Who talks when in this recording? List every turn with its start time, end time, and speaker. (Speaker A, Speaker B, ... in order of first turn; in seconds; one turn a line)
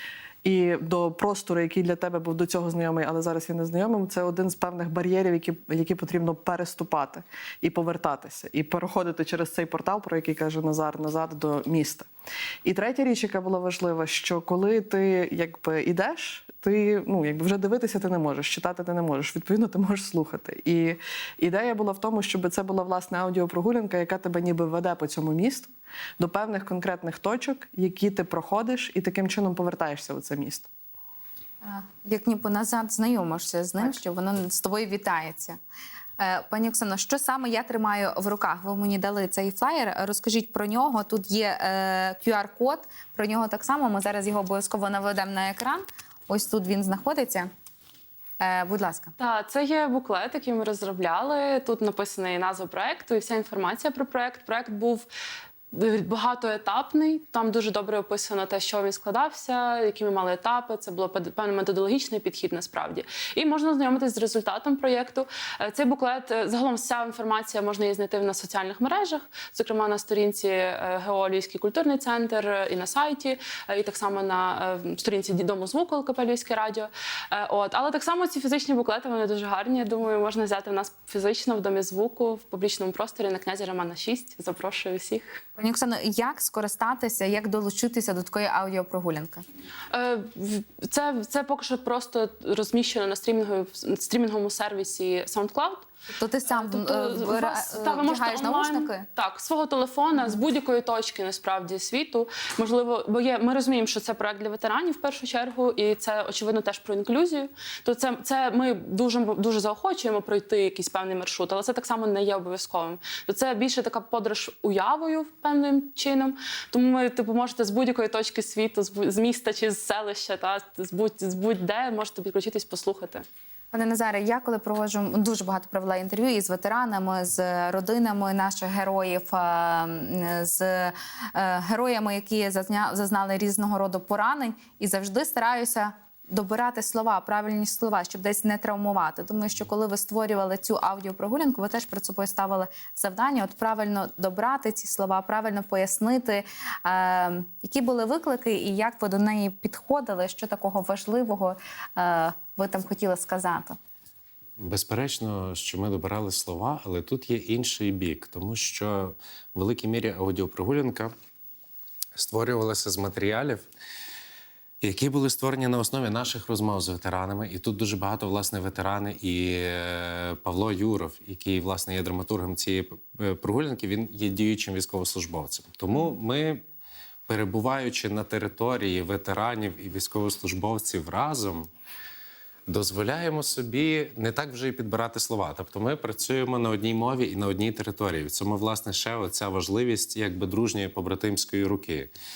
Speaker A: 0.4-12.1
Speaker A: 12.6-30.7
Speaker B: 31.6-35.6
Speaker B: 36.2-47.5
Speaker B: 48.4-49.1
Speaker C: 49.2-55.1
Speaker C: 55.7-85.4
Speaker B: 85.6-89.4
Speaker C: 89.9-95.8
Speaker B: 96.1-99.0
Speaker C: 96.5-123.2
Speaker B: 123.7-153.8
Speaker D: 154.6-161.1
Speaker D: 162.1-163.7
Speaker D: 164.8-176.6
Speaker D: 177.3-181.7
Speaker D: 182.7-192.1